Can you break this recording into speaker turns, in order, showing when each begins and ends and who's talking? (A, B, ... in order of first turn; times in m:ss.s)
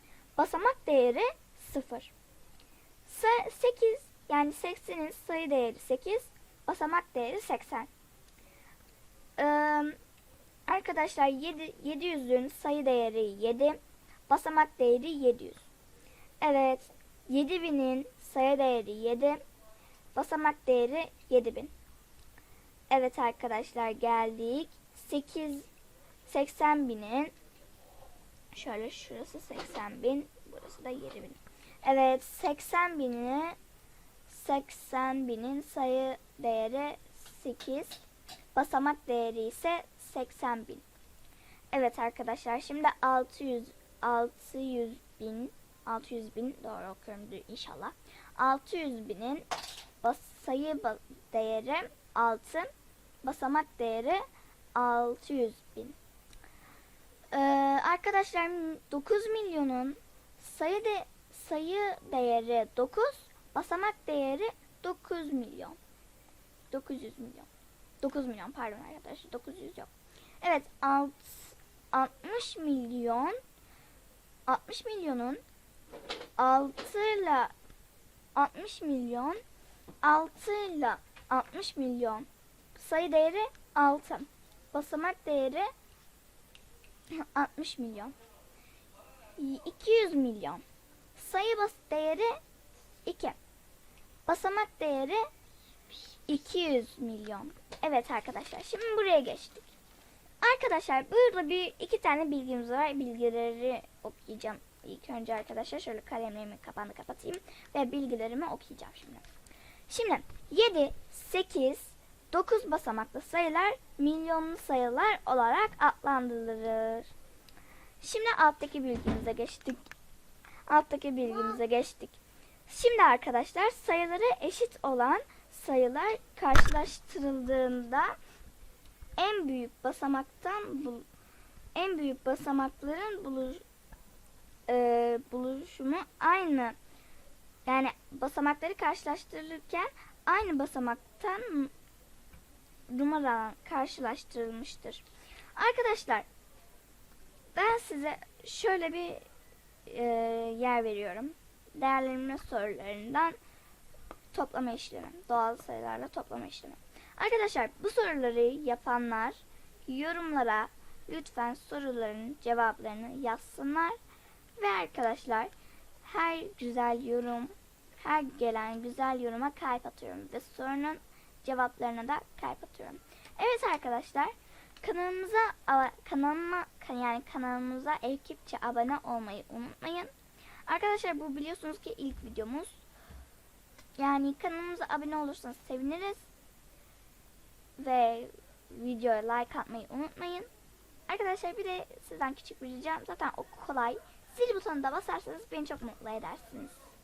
0:00.4-0:02.1 A
0:03.0-0:07.9 A
0:09.4-0:10.0 A
0:10.7-0:13.8 A
0:14.3-0:15.6 A
0:16.4-0:19.4 A
0:20.1-0:21.7 A
0:22.9-0:25.7 A
0:26.2-0:27.3 A
0:28.5-0:33.6 A
0:34.3-0:38.0 A
0:38.5-0:40.8 A
0:41.7-0:49.5 A
0:50.0-0:52.7 A
0:53.2-0:54.2 A
0:54.8-0:56.0 A
0:57.3-1:05.8 A
1:06.7-1:07.5 A
1:08.0-1:09.9 A
1:10.4-1:13.4 A
1:14.5-1:15.4 A
1:16.4-1:17.5 A
1:18.4-1:19.4 A
1:20.0-1:25.7 A
1:27.1-1:28.1 A
1:29.4-1:30.6 A
1:31.1-1:32.4 A
1:33.0-1:33.4 A
1:34.3-1:35.2 A
1:36.3-1:39.7 A
1:40.4-1:49.2 A
1:49.9-1:57.1 A
1:58.0-1:59.8 A
2:00.7-2:08.2 A
2:09.2-2:11.0 A
2:11.7-2:13.6 A
2:14.7-2:16.7 A
2:17.6-2:21.7 A
2:22.9-2:25.0 A
2:25.6-2:26.2 A
2:27.5-2:29.2 A
2:29.8-2:33.4 A
2:34.3-2:44.0 A
2:44.6-2:45.5 A
2:46.0-3:00.1 A
3:00.7-3:02.8 A
3:04.0-3:06.3 A
3:07.8-3:10.5 A
3:11.1-3:16.8 A